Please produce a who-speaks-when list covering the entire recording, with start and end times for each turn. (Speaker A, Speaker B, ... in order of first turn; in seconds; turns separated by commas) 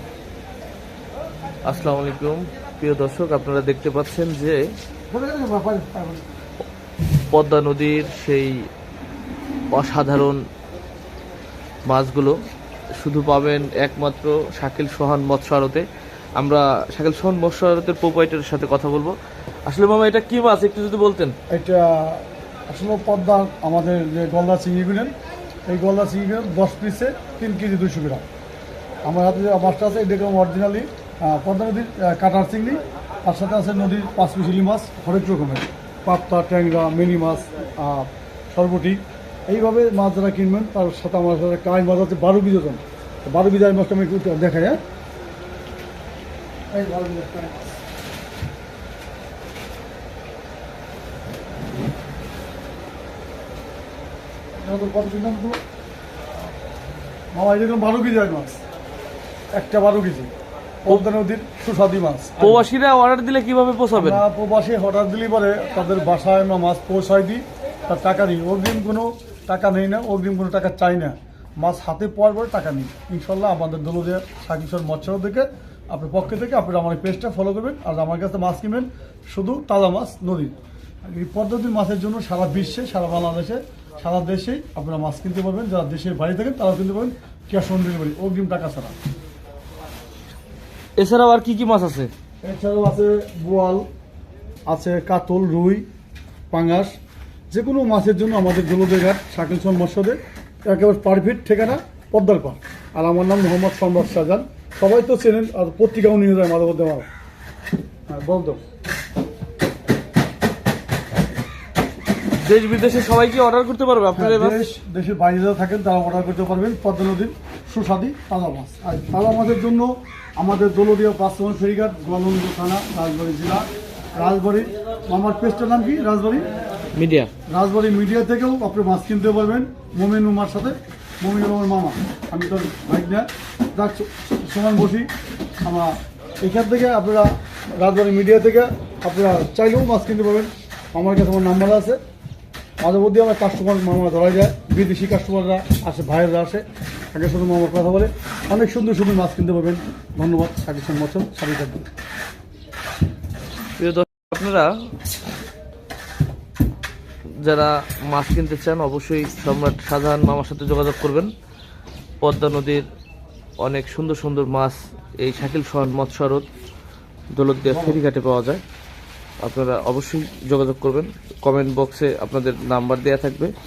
Speaker A: 1.6-4.6, Speaker B: 5.1-6.2, Speaker A: 7.3-8.5, Speaker A: 9.7-10.4, Speaker A: 11.8-12.4, Speaker A: 13.0-15.8, Speaker A: 16.4-19.1, Speaker A: 19.6-21.3, Speaker B: 21.5-25.1, Speaker B: 25.6-28.2, Speaker B: 29.0-44.8, Speaker B: 46.7-47.7, Speaker B: 54.6-55.6, Speaker B: 57.3-58.5, Speaker B: 59.5-60.3, Speaker B: 60.8-62.6, Speaker A: 62.4-64.2, Speaker B: 63.9-88.9, Speaker A: 91.0-92.1, Speaker B: 92.4-93.8, Speaker B: 94.7-95.8, Speaker B: 96.5-96.9, Speaker B: 97.5-107.1, Speaker B: 108.1-108.6, Speaker A: 112.4-114.6, Speaker B: 114.1-126.5, Speaker A: 126.9-127.3, Speaker B: 127.5-135.1, Speaker B: 135.6-142.0, Speaker B: 142.8-151.8, Speaker A: 153.8-154.7, Speaker A: 157.4-161.3, Speaker A: 162.2-162.8, Speaker A: 163.6-166.5, Speaker A: 167.3-168.6, Speaker B: 167.7-168.0, Speaker A: 169.4-173.5